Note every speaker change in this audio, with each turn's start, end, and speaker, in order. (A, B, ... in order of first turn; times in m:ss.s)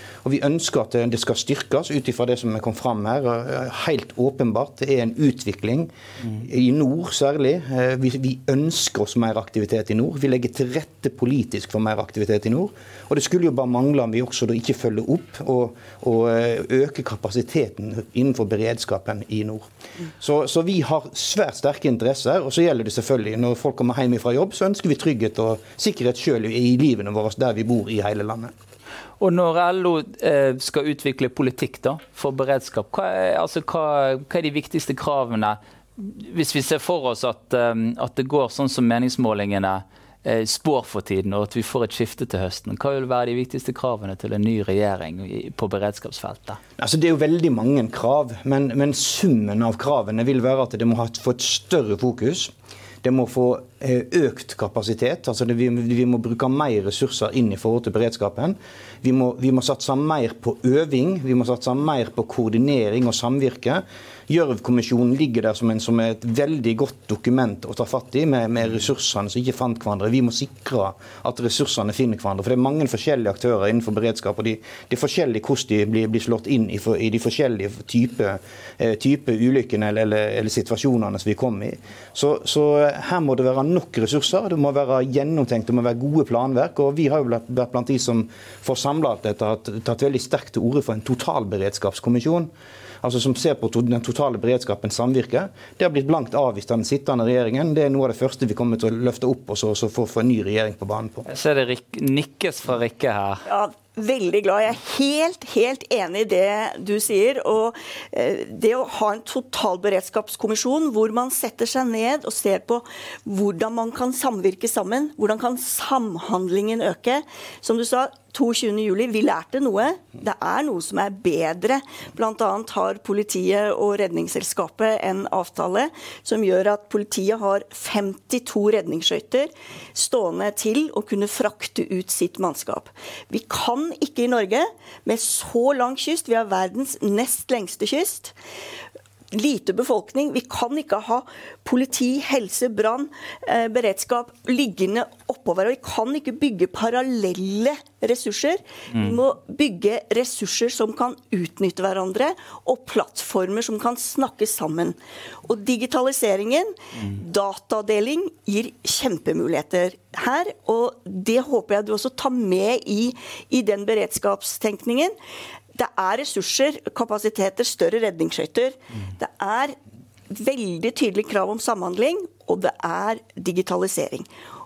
0:00.2-0:28.5 A
0:29.2-0:46.6 B
0:46.8-1:41.3 A
1:41.3-1:43.4 B
1:43.5-2:18.3 C
2:19.3-2:45.1 C
2:28.9-2:29.2 B
2:45.8-2:49.8 C
2:50.3-2:54.3 C